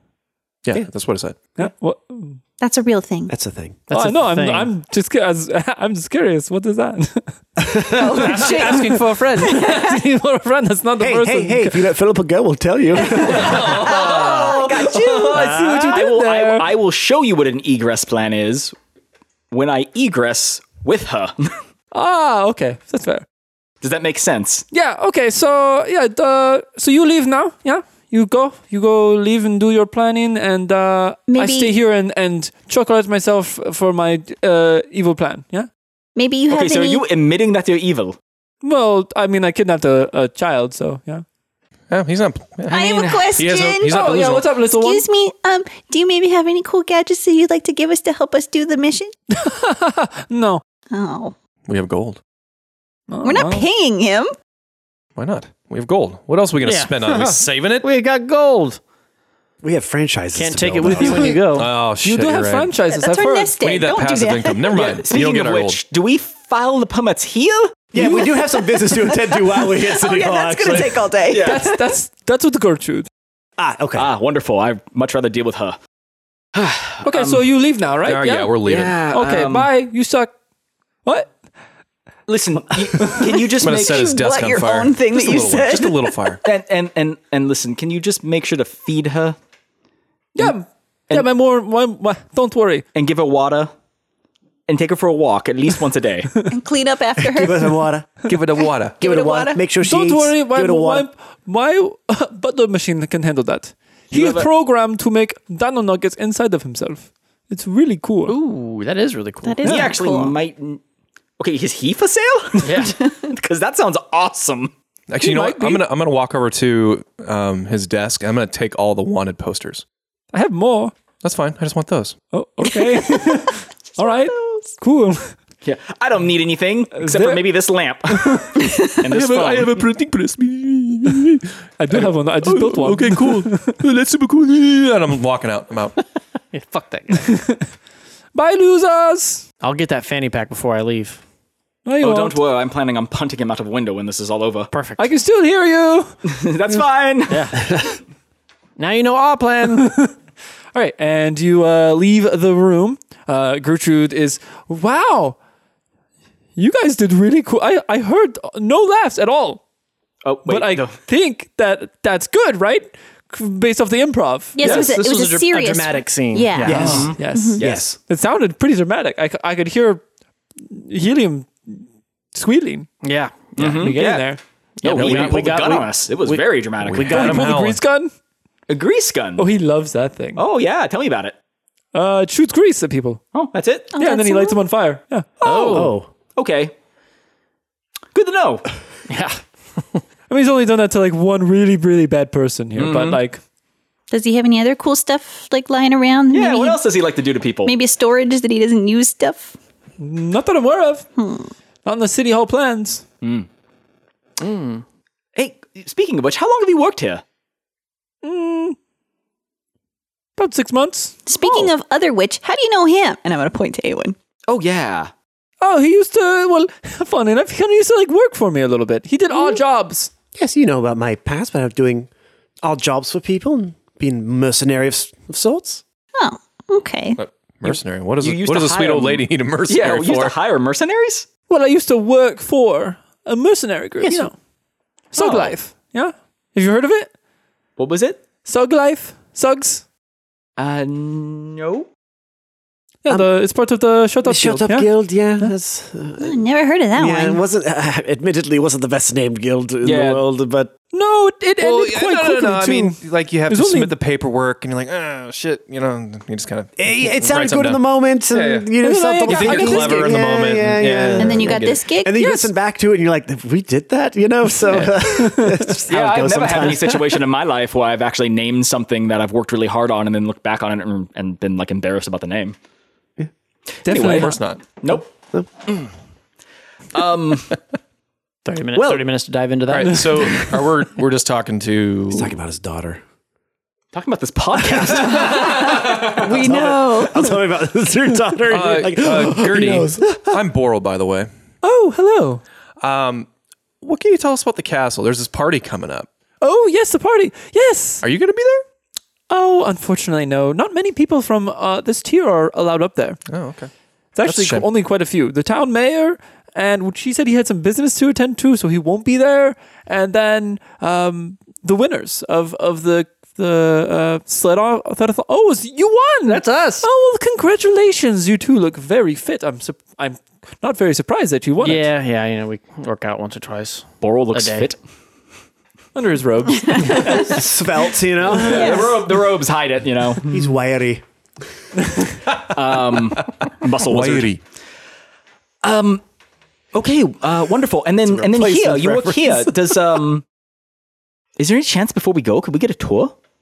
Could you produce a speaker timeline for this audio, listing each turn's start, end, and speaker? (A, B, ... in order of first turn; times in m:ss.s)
0:00.6-0:01.4 A
0:01.6-0:02.4 B
0:02.6-0:03.3 C
0:03.3-0:03.8 D
0:03.9-0:04.7 E
0:03.9-0:07.4 B
0:07.6-0:08.3 D
0:07.9-0:10.0 C
0:08.0-0:09.6 E
0:08.4-0:11.9 B
0:11.0-0:13.9 D
0:13.1-0:15.6 C
0:13.3-0:16.7 B
0:13.5-0:14.3 A
0:15.3-0:16.0 D
0:15.9-0:18.7 F
0:19.5-0:21.6 F
0:21.9-0:23.2 B
0:23.8-0:24.6 F
0:24.7-0:35.7 B
0:31.3-0:31.7 C
0:36.2-0:37.0 C
0:36.5-0:38.2 F
0:38.6-0:41.2 B
0:41.9-0:44.5 A
0:42.7-0:43.3 F
0:42.7-0:44.0 C
0:43.8-0:45.0 B
0:44.6-0:49.1 C
0:49.3-0:50.6 B
0:50.9-0:51.3 C
0:51.7-0:52.2 A
0:53.1-0:53.7 B
0:53.2-0:54.3 C
0:55.2-0:57.9 A
0:56.6-0:58.8 E
0:59.6-1:01.6 D
1:00.3-1:01.7 E
1:01.0-1:02.8 A
1:01.9-1:03.6 B
1:02.9-1:05.0 C
1:03.6-1:05.8 A
1:04.7-1:07.8 F
1:07.9-1:11.1 D
1:08.0-1:11.6 C
1:11.3-1:11.7 F
1:11.4-1:13.1 B
1:13.6-1:14.1 D
1:13.9-1:15.8 F
1:16.5-1:17.5 F
1:17.0-1:18.5 B
1:18.0-1:19.0 A
1:18.6-1:19.7 F
1:19.1-1:20.3 B
1:21.0-1:21.3 B
1:22.3-1:24.1 F
1:23.6-1:26.4 A
1:23.7-1:26.3 C
1:26.4-1:29.4 F
1:30.3-1:32.8 B
1:32.9-1:33.7 F
1:34.7-1:36.4 F
1:36.4-1:37.8 C
1:37.2-1:38.1 D
1:38.2-1:39.0 A
1:39.0-1:39.6 C
1:39.0-1:41.1 D
1:39.8-1:48.4 B
1:44.1-1:44.5 F
1:48.2-1:49.9 E
1:49.4-1:50.4 C
1:49.6-1:50.8 F
1:51.4-1:54.7 F
1:52.6-1:53.0 E
1:55.1-1:59.8 A
1:55.2-1:55.8 B
2:00.3-2:00.9 B
2:01.2-2:02.2 A
2:02.3-2:05.4 B
2:02.7-2:04.7 C
2:05.6-2:09.9 F
2:06.9-2:07.5 B
2:08.6-2:09.0 C
2:09.1-2:16.0 A
2:11.8-2:13.7 B
2:16.5-2:17.4 E
2:17.2-2:17.7 B
2:18.3-2:19.4 B
2:19.6-2:21.2 E
2:21.8-2:22.4 B
2:22.0-2:24.7 F
2:24.7-2:25.0 E
2:25.0-2:26.2 B
2:26.3-2:27.6 F
2:27.3-2:27.6 E
2:28.8-2:30.0 E
2:29.8-2:30.1 B
2:30.7-2:35.4 B
2:36.6-2:39.6 B
2:40.2-2:41.0 F
2:40.4-2:44.6 B
2:44.5-2:47.6 C
2:44.6-2:47.2 E
2:44.6-2:44.9 F
2:46.6-2:47.9 D
2:46.7-2:47.9 F
2:46.9-2:50.0 B
2:50.6-2:52.9 B
2:53.0-2:54.0 E
2:53.6-2:57.5 F
2:53.6-2:54.4 B
2:54.8-2:57.5 E
2:56.8-2:57.8 A
2:57.1-2:58.1 B
2:58.7-2:59.5 F
2:59.4-3:00.4 B
3:00.4-3:01.3 F
3:01.9-3:03.2 B
3:03.3-3:03.9 F
3:03.9-3:04.6 C
3:04.0-3:05.5 B
3:05.4-3:06.7 F
3:05.4-3:06.0 D
3:08.1-3:08.7 F
3:09.1-3:09.4 E
3:10.3-3:13.4 B
3:12.8-3:13.2 F
3:14.1-3:16.8 C
3:16.3-3:17.7 F
3:17.6-3:19.5 C
3:20.0-3:21.0 B
3:21.2-3:21.5 C
3:21.8-3:23.0 B
3:23.2-3:23.5 F
3:24.4-3:24.8 E
3:25.4-3:27.2 F
3:28.2-3:28.8 B
3:30.4-3:31.2 B
3:31.2-3:34.1 C
3:34.5-3:35.1 F
3:35.6-3:40.1 B
3:40.3-3:42.1 D
3:42.6-3:45.8 D
3:46.2-3:47.2 C
3:47.2-3:50.4 A
3:47.6-3:51.3 F
3:51.5-3:54.3 B
3:55.1-3:57.1 B
3:55.1-3:55.6 F
3:57.8-3:58.2 F
3:58.4-3:59.8 B
4:00.6-4:01.9 F
4:03.0-4:05.5 B
4:04.2-4:06.4 D
4:06.2-4:07.4 C
4:06.9-4:10.7 D
4:09.8-4:10.2 F
4:10.9-4:14.0 B
4:11.6-4:18.7 A
4:16.8-4:27.2 D
4:18.8-4:20.1 B
4:19.2-4:21.7 A
4:21.2-4:22.1 C
4:22.2-4:22.5 B
4:24.7-4:24.9 F
4:25.2-4:25.6 B
4:25.9-4:32.6 F
4:33.8-4:34.4 B
4:33.9-4:35.1 F
4:33.9-4:34.6 A
4:34.9-4:35.5 D
4:36.9-4:37.6 F
4:38.4-4:40.6 E
4:39.7-4:42.3 A
4:42.1-4:43.0 D
4:43.9-4:45.8 F
4:44.7-4:50.4 D
4:45.2-4:47.4 C
4:48.5-4:51.3 A
4:51.6-4:52.4 B
4:52.8-4:53.3 A
4:53.8-4:56.1 A
4:56.4-4:58.0 B
4:58.0-4:58.6 A
4:59.3-5:03.2 B
5:03.3-5:03.7 A
5:04.1-5:21.9 B
5:04.2-5:04.7 A
5:16.3-5:16.8 E
5:21.6-5:24.7 E
5:24.0-5:24.8 F
5:25.9-5:27.4 B
5:26.6-5:27.4 C
5:27.1-5:28.9 D
5:28.2-5:30.3 F
5:28.4-5:29.0 C
5:30.3-5:31.0 D
5:32.4-5:34.4 F
5:33.6-5:34.4 A
5:35.6-5:36.0 F
5:36.7-5:40.2 F
5:38.1-5:39.4 D
5:41.4-5:43.1 F